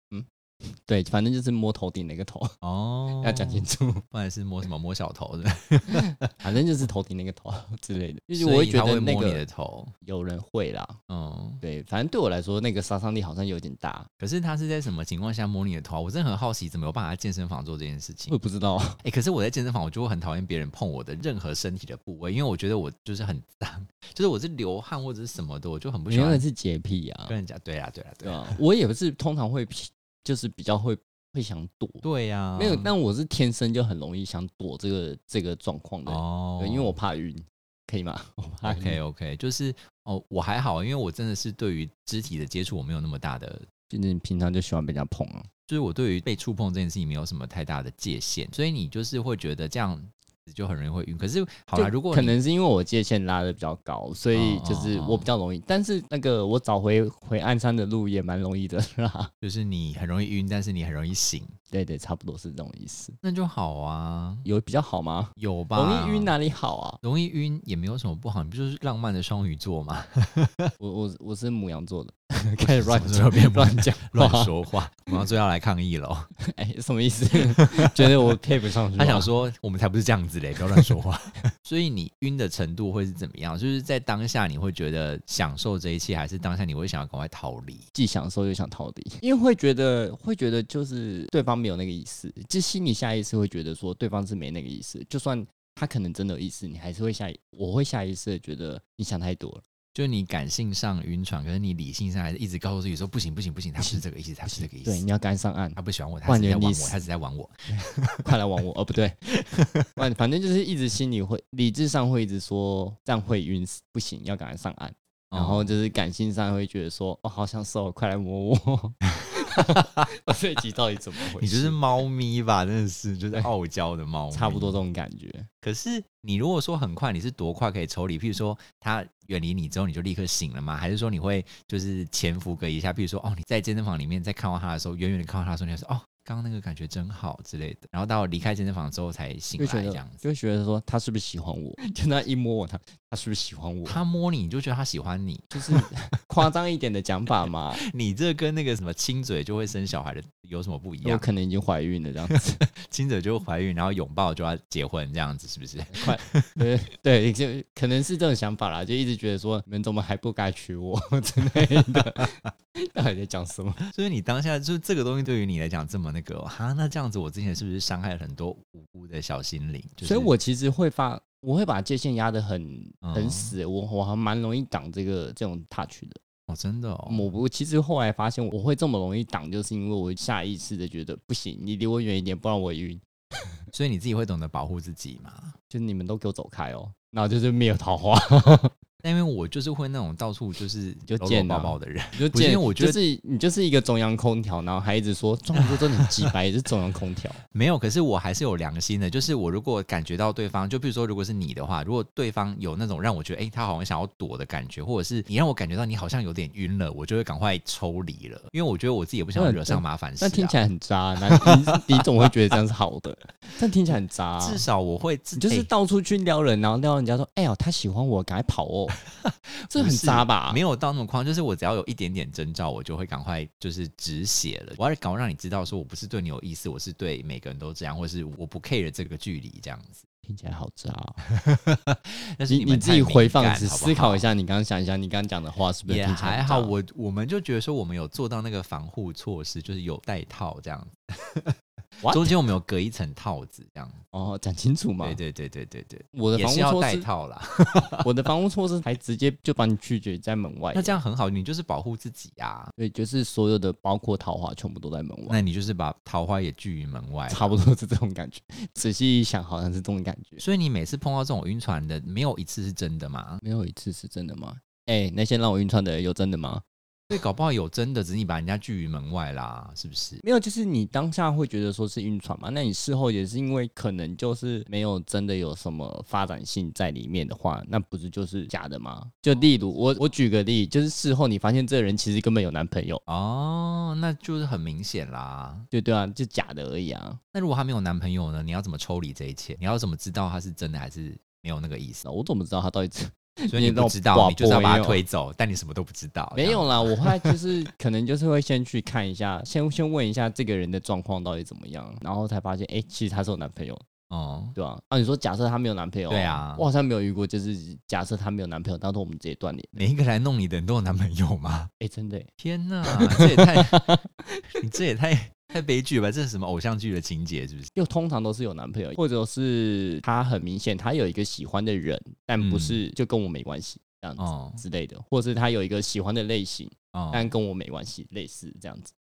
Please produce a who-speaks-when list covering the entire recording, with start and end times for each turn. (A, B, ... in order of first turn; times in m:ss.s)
0:00.1-0:02.6 A
0:02.6-0:06.3 B
0:03.2-0:04.0 A
0:05.9-0:09.4 A
0:08.4-0:09.9 B
0:10.0-0:11.0 A
0:11.1-0:11.6 B
0:11.6-0:14.1 A
0:14.2-0:18.3 B
0:18.3-0:19.0 A
0:19.0-0:26.4 B
0:26.1-0:27.3 A
0:27.3-0:28.6 B
0:28.2-0:32.0 A
0:32.0-0:32.9 B
0:32.6-0:39.0 A
0:36.1-0:37.0 B
0:38.7-0:43.7 B
0:43.9-0:45.5 A
0:45.7-0:52.4 B
0:51.8-0:59.3 A
0:54.3-0:55.3 B
0:59.4-1:01.6 B
1:01.7-1:03.2 A
1:03.2-1:04.5 B
1:04.4-1:07.0 A
1:05.4-1:06.4 B
1:07.0-1:10.7 B
1:10.8-1:14.5 A
1:12.6-1:16.3 B
1:16.5-1:19.3 A
1:19.0-1:27.9 B
1:27.9-1:39.6 A
1:39.9-1:45.0 B
1:43.8-1:47.0 A
1:45.8-1:48.3 B
1:47.7-2:02.0 A
1:55.3-1:55.7 B
1:59.2-2:00.1 B
2:01.4-2:04.8 B
2:04.3-2:05.5 A
2:05.6-2:20.2 B
2:19.6-2:24.0 A
2:23.9-2:25.9 B
2:25.5-2:27.8 A
2:27.8-2:31.2 B
2:31.0-2:32.6 A
2:32.3-2:36.6 B
2:35.9-2:43.8 A
2:41.6-2:42.3 B
2:43.9-2:50.3 B
2:50.0-2:56.2 A
2:53.0-2:53.6 B
2:56.5-2:57.3 B
2:57.1-3:03.0 A
3:03.7-3:05.6 B
3:05.7-3:08.7 A
3:09.0-3:13.0 B
3:11.1-3:17.4 A
3:15.6-3:16.3 B
3:17.5-3:30.6 B
3:29.4-3:34.6 A
3:31.4-3:32.0 B
3:34.4-3:35.7 B
3:35.4-3:39.0 A
3:39.1-3:50.0 B
3:39.7-3:40.6 A
3:50.2-3:51.2 A
3:51.3-3:54.2 B
3:52.5-3:56.7 A
3:55.9-4:01.6 B
4:02.0-4:02.3 A
4:02.1-4:04.0 B
4:04.1-4:05.2 A
4:05.0-4:08.1 B
4:06.1-4:07.1 A
4:08.0-4:11.0 A
4:10.7-4:12.7 B
4:12.8-4:15.4 A
4:15.3-4:17.6 B
4:17.3-4:20.4 A
4:20.4-4:23.4 B
4:23.4-4:26.6 A
4:27.1-4:30.2 B
4:30.2-4:43.0 A
4:43.1-4:45.7 B
4:45.7-4:47.2 A
4:47.3-4:52.0 B
4:52.0-4:55.0 A
4:53.5-4:57.3 B
4:56.3-5:03.8 A
5:04.1-5:04.6 B
5:04.6-5:09.9 A
5:06.1-5:06.6 B
5:09.8-5:11.7 B
5:11.8-5:12.3 A
5:12.4-5:13.9 B
5:12.8-5:14.4 A
5:14.6-5:17.7 B
5:17.8-5:28.9 A
5:22.4-5:22.8 B
5:24.2-5:24.6 B
5:26.9-5:27.3 B